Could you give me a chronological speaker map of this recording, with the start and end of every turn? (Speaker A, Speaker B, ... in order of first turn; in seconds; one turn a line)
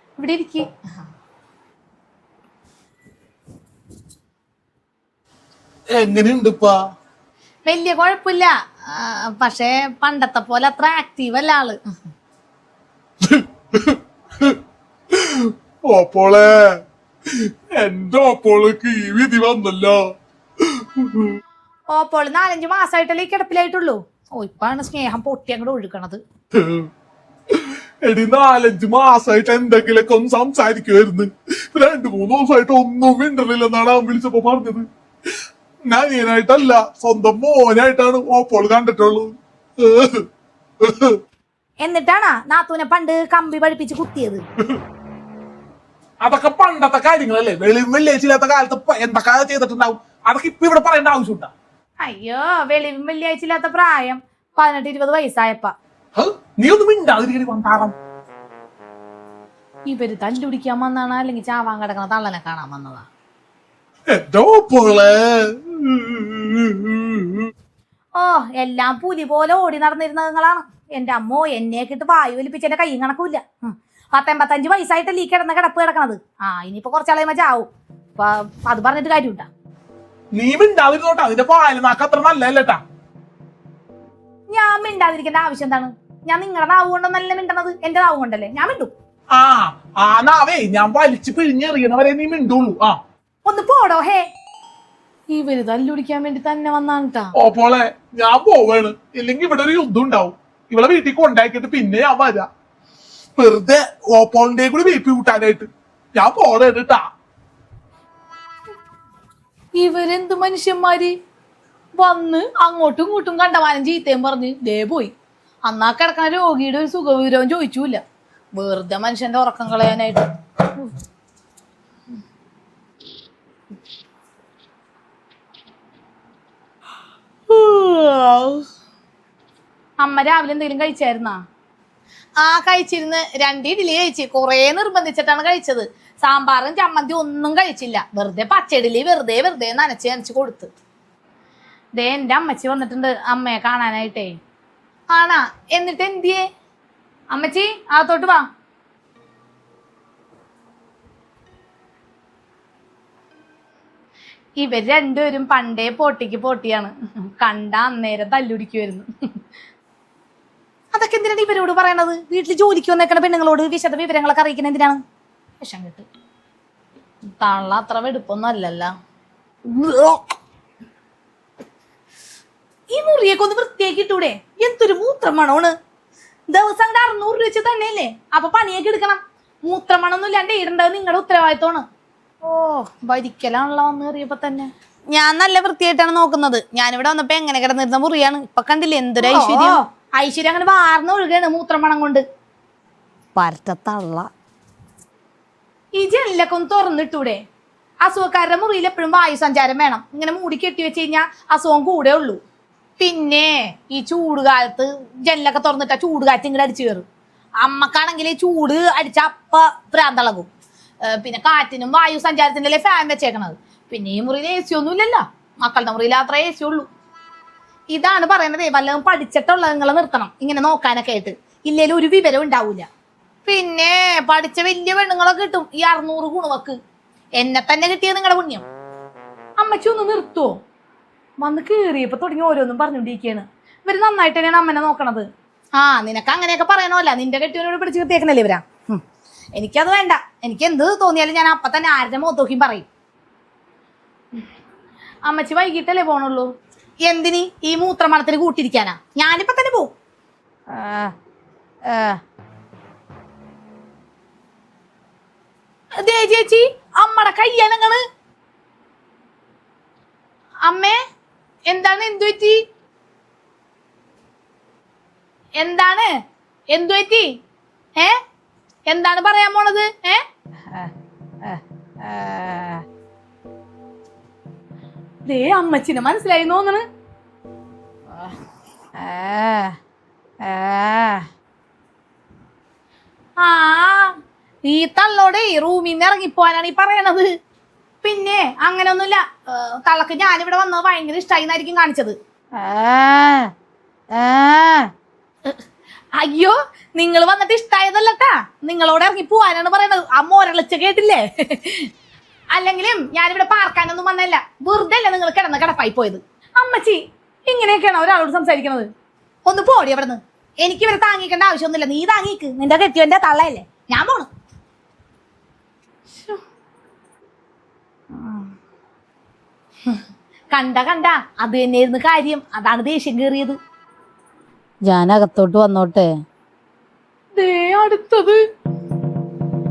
Speaker A: 0.2-0.7
Speaker B: 5.9-6.8
Speaker A: 7.7-11.8
Speaker B: 13.2-14.6
Speaker B: 15.1-20.0
Speaker B: 20.6-21.4
Speaker A: 21.9-26.2
Speaker B: 26.5-26.9
Speaker B: 27.5-34.8
Speaker B: 35.9-40.2
Speaker B: 40.8-41.2
Speaker A: 41.8-44.4
Speaker B: 46.2-51.5
Speaker A: 52.0-55.7
Speaker B: 56.1-57.9
Speaker A: 59.9-63.1
Speaker B: 64.1-67.5
Speaker A: 68.1-79.5
Speaker B: 80.3-82.8
Speaker A: 84.5-88.9
Speaker B: 89.3-93.0
Speaker A: 93.4-94.3
Speaker A: 95.3-97.3
Speaker B: 97.4-102.5
Speaker B: 103.3-107.0
Speaker A: 109.8-111.1
Speaker A: 112.0-115.1
Speaker A: 115.7-118.0
Speaker A: 118.5-120.3
Speaker A: 127.5-128.6
Speaker A: 130.0-131.4
Speaker A: 132.4-140.7
Speaker A: 141.9-144.3
Speaker A: 145.1-146.4
Speaker A: 147.3-148.5
Speaker A: 154.6-159.1
Speaker A: 160.9-165.0
Speaker A: 165.6-166.0
Speaker A: 167.4-168.9
Speaker A: 169.7-170.3
Speaker A: 172.9-175.7
Speaker A: 176.5-181.8
Speaker A: 182.4-192.2
Speaker A: 193.3-194.3
Speaker A: 195.9-197.4
Speaker A: 198.0-202.4
Speaker A: 203.0-207.0
Speaker A: 207.6-210.5
Speaker A: 211.0-216.9
Speaker A: 217.9-222.9
Speaker A: 223.4-226.8
Speaker A: 227.4-228.6
Speaker A: 229.6-230.6
Speaker A: 231.4-239.0
Speaker A: 239.6-242.9
Speaker A: 245.2-246.5
Speaker A: 247.0-249.9
Speaker A: 250.7-251.1
Speaker A: 251.9-252.2
Speaker A: 256.0-258.0
Speaker A: 260.6-261.0
Speaker A: 261.7-262.6
Speaker A: 265.6-266.1
Speaker A: 266.7-267.3
Speaker A: 268.9-270.9
Speaker A: 271.4-272.8
Speaker A: 275.2-276.8
Speaker A: 279.0-279.8
Speaker A: 280.4-281.3
Speaker A: 283.4-287.3
Speaker A: 288.0-293.5
Speaker A: 294.1-294.9
Speaker A: 296.1-301.9
Speaker A: 302.5-308.9
Speaker A: 309.4-314.3
Speaker A: 316.1-316.4
Speaker A: 318.1-318.5
Speaker A: 320.5-323.6
Speaker A: 324.9-326.1
Speaker A: 327.3-328.4